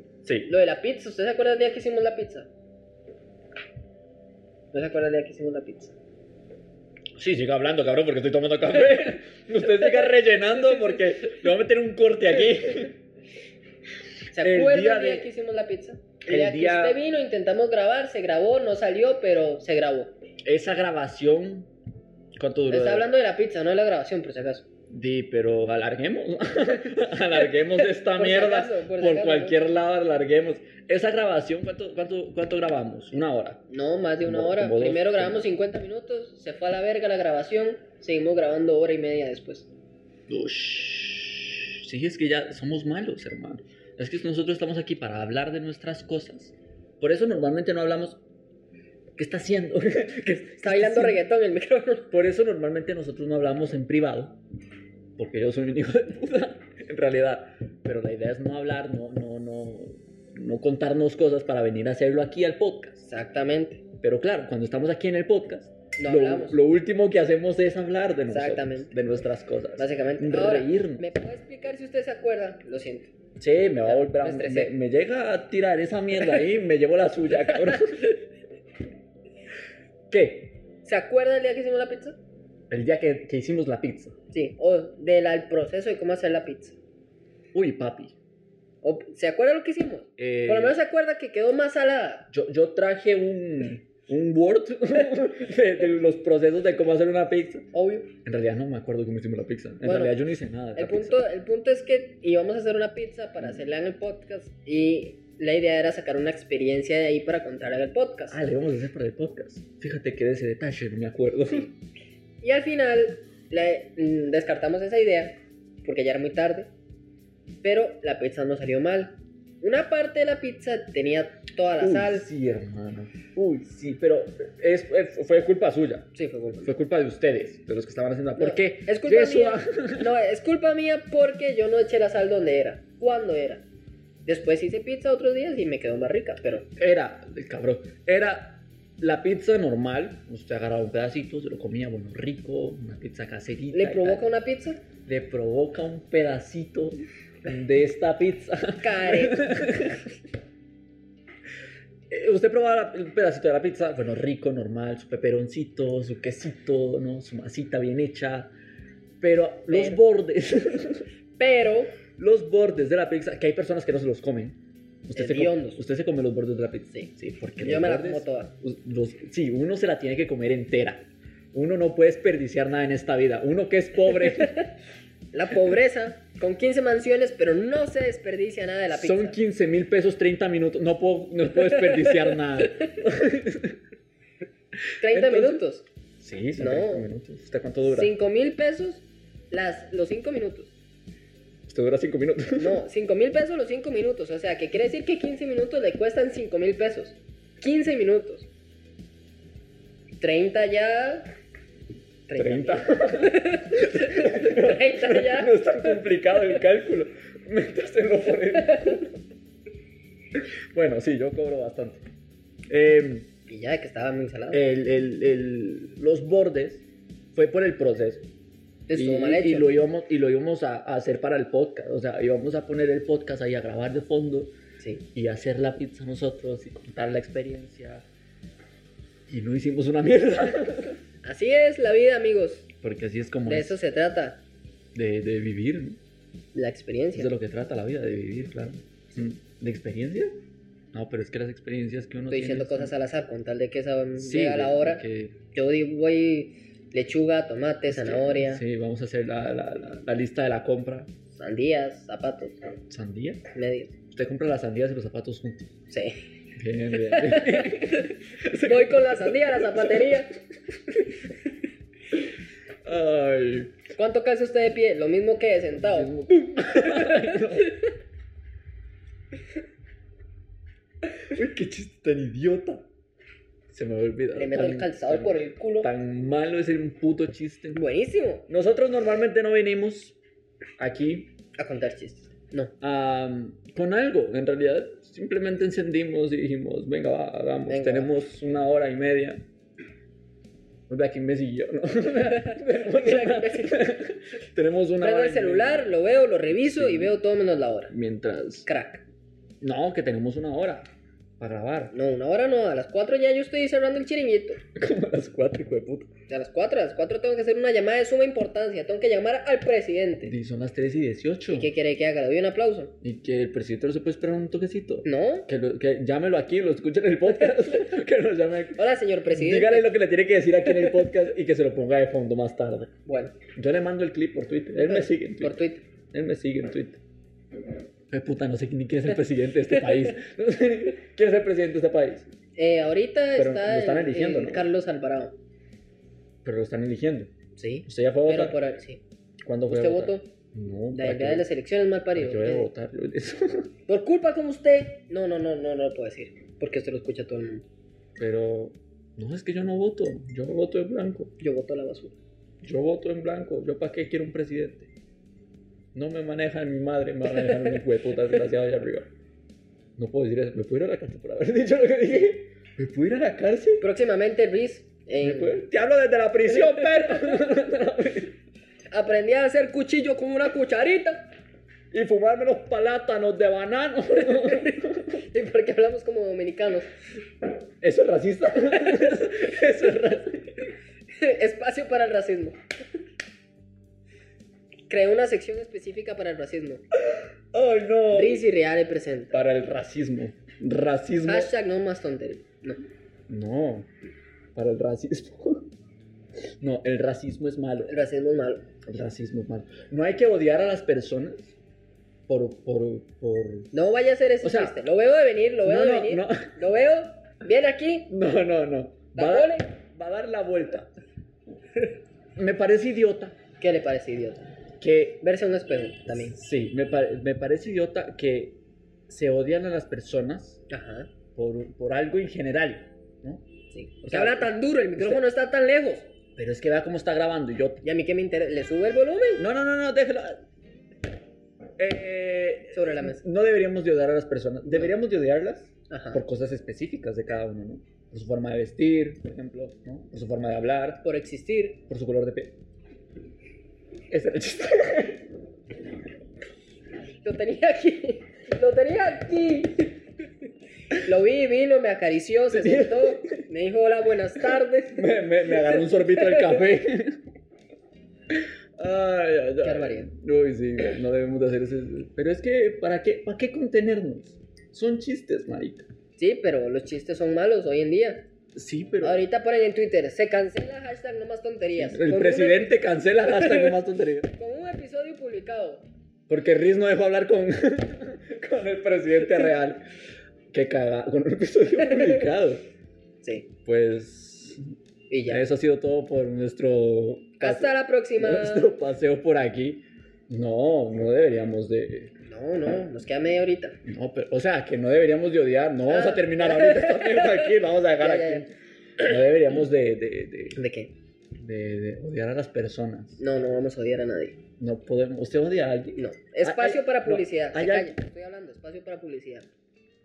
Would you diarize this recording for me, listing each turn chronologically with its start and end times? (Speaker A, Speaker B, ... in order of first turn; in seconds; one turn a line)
Speaker A: 0.2-0.5
Speaker B: 0.5-2.5
Speaker B: 4.7-6.0
Speaker A: 7.2-13.0
Speaker B: 14.3-20.1
Speaker A: 14.3-15.3
Speaker A: 16.3-17.0
Speaker A: 20.4-21.7
Speaker A: 22.4-23.1
Speaker B: 22.7-24.7
Speaker A: 24.9-33.6
Speaker B: 27.6-29.6
Speaker B: 33.7-39.7
Speaker A: 34.2-35.5
Speaker A: 40.3-48.2
Speaker A: 49.2-51.2
Speaker B: 50.6-52.1
Speaker A: 52.1-54.4
Speaker A: 55.2-63.1
Speaker B: 63.1-63.8
Speaker A: 64.0-71.1
Speaker B: 66.0-66.6
Speaker B: 68.3-68.9
Speaker B: 69.8-73.1
Speaker A: 73.4-78.2
Speaker B: 73.8-74.8
Speaker B: 77.5-78.0
Speaker A: 80.1-80.6
Speaker B: 80.8-82.2
Speaker A: 82.7-84.2
Speaker B: 84.3-86.8
Speaker A: 87.5-88.1
Speaker B: 88.8-92.3
Speaker A: 90.2-90.8
Speaker A: 92.3-97.7
Speaker B: 97.7-98.1
Speaker A: 98.2-101.2
Speaker B: 99.8-100.2
Speaker B: 100.8-108.4
Speaker A: 108.3-111.7
Speaker B: 112.4-116.7
Speaker B: 117.6-122.3
Speaker A: 121.8-130.1
Speaker B: 126.2-126.7
Speaker B: 128.4-133.7
Speaker B: 134.2-136.7
Speaker A: 136.8-144.3
Speaker B: 143.7-144.8
Speaker A: 145.1-150.1
Speaker B: 148.8-149.8
Speaker A: 152.1-158.5
Speaker A: 159.2-161.1
Speaker B: 159.7-160.0
Speaker B: 161.4-162.0
Speaker A: 162.2-174.7
Speaker B: 165.2-165.8
Speaker B: 166.9-168.5
Speaker B: 174.3-174.6
Speaker B: 175.3-179.4
Speaker A: 178.9-183.8
Speaker B: 181.7-182.4
Speaker B: 185.0-185.9
Speaker A: 185.0-185.6
Speaker A: 186.2-188.1
Speaker B: 186.6-187.1
Speaker B: 187.8-190.7
Speaker A: 191.7-192.8
Speaker B: 192.6-198.5
Speaker B: 200.2-201.3
Speaker B: 202.3-206.6
Speaker A: 202.4-209.2
Speaker A: 210.3-212.0
Speaker A: 212.7-213.3
Speaker B: 213.5-214.6
Speaker A: 214.5-218.3
Speaker B: 218.9-219.7
Speaker A: 218.9-224.6
Speaker B: 224.8-225.0
Speaker A: 225.1-228.1
Speaker A: 229.3-231.0
Speaker B: 231.2-232.7
Speaker A: 232.8-233.8
Speaker B: 233.5-234.4
Speaker A: 234.9-236.0
Speaker B: 236.5-237.3
Speaker A: 237.1-240.4
Speaker A: 240.9-242.9
Speaker B: 242.3-248.6
Speaker A: 244.2-245.4
Speaker A: 247.9-251.1
Speaker B: 251.4-252.6
Speaker A: 252.9-253.4
Speaker B: 253.5-253.9
Speaker A: 254.1-255.7
Speaker B: 255.9-256.2
Speaker A: 256.6-260.2
Speaker B: 256.9-260.3
Speaker A: 262.9-263.9
Speaker B: 263.9-267.8
Speaker A: 265.7-267.8
Speaker A: 271.3-272.9
Speaker A: 273.7-277.8
Speaker B: 274.4-275.9
Speaker B: 277.7-278.5
Speaker A: 278.5-280.2
Speaker A: 280.8-281.3
Speaker B: 281.6-282.7
Speaker A: 282.8-289.4
Speaker B: 287.7-288.1
Speaker A: 290.9-295.9
Speaker B: 292.4-293.9
Speaker B: 295.0-297.9
Speaker A: 296.5-297.2
Speaker A: 297.9-298.7
Speaker B: 298.7-299.0
Speaker A: 299.6-301.9
Speaker B: 301.9-304.6
Speaker A: 304.8-306.1
Speaker B: 306.3-310.4
Speaker A: 310.2-311.7
Speaker B: 311.5-312.9
Speaker A: 313.0-322.9
Speaker B: 315.1-315.5
Speaker B: 318.8-319.9
Speaker B: 323.1-323.4
Speaker A: 323.6-327.0
Speaker B: 324.8-325.9
Speaker A: 328.1-332.3
Speaker B: 332.6-335.4
Speaker A: 333.4-334.7
Speaker A: 336.4-337.3
Speaker B: 337.6-339.0
Speaker A: 337.9-338.6
Speaker A: 339.4-341.5
Speaker B: 339.7-340.3
Speaker B: 340.9-342.7
Speaker A: 342.1-343.7
Speaker B: 343.9-347.6
Speaker A: 348.2-351.3
Speaker B: 351.4-352.2
Speaker A: 352.6-354.9
Speaker A: 355.9-359.1
Speaker B: 357.5-357.8
Speaker A: 360.0-363.9
Speaker B: 363.8-365.6
Speaker A: 365.2-368.4
Speaker B: 366.5-367.4
Speaker B: 368.9-371.3
Speaker A: 371.9-375.2
Speaker B: 374.3-376.9
Speaker A: 377.8-380.7
Speaker B: 378.7-379.3
Speaker B: 381.1-382.6
Speaker B: 384.9-386.8
Speaker A: 387.0-388.4
Speaker B: 388.1-389.4
Speaker A: 389.3-391.5
Speaker B: 391.2-392.8
Speaker A: 393.3-393.9
Speaker A: 394.6-395.7
Speaker A: 396.6-397.9
Speaker B: 397.9-398.7
Speaker A: 398.9-401.6
Speaker A: 402.3-403.7
Speaker B: 403.7-408.1
Speaker A: 404.4-404.8
Speaker A: 405.6-406.6
Speaker A: 408.1-410.9
Speaker B: 409.1-409.7
Speaker A: 412.4-413.4
Speaker B: 413.6-414.5
Speaker A: 414.8-415.2
Speaker B: 415.2-416.4
Speaker A: 416.1-418.6
Speaker A: 419.1-420.6
Speaker B: 420.7-421.1
Speaker A: 421.4-423.5
Speaker B: 423.7-426.1
Speaker A: 424.0-425.2
Speaker A: 426.4-427.8
Speaker B: 427.8-429.5
Speaker A: 429.4-430.4
Speaker A: 431.8-441.1
Speaker B: 432.7-433.2
Speaker B: 434.7-434.9
Speaker B: 435.9-436.2
Speaker B: 441.0-441.8
Speaker A: 441.9-442.6
Speaker A: 444.1-445.2
Speaker B: 447.2-450.0
Speaker B: 451.0-456.6
Speaker A: 452.5-453.5
Speaker A: 454.9-457.2
Speaker A: 458.3-465.9
Speaker B: 459.6-460.1
Speaker B: 466.2-468.3
Speaker A: 468.6-469.2
Speaker B: 469.0-473.8
Speaker A: 471.8-474.3
Speaker B: 474.3-475.9
Speaker A: 476.3-479.9
Speaker A: 480.5-482.6
Speaker B: 481.9-482.2
Speaker B: 483.2-483.5
Speaker A: 483.6-484.6
Speaker B: 485.1-485.4
Speaker A: 485.3-492.1
Speaker B: 487.4-488.7
Speaker B: 492.3-493.8
Speaker A: 493.8-500.6
Speaker B: 495.9-498.5
Speaker B: 500.6-500.9
Speaker A: 501.4-503.2
Speaker B: 503.2-504.4
Speaker A: 504.6-507.9
Speaker B: 506.0-509.5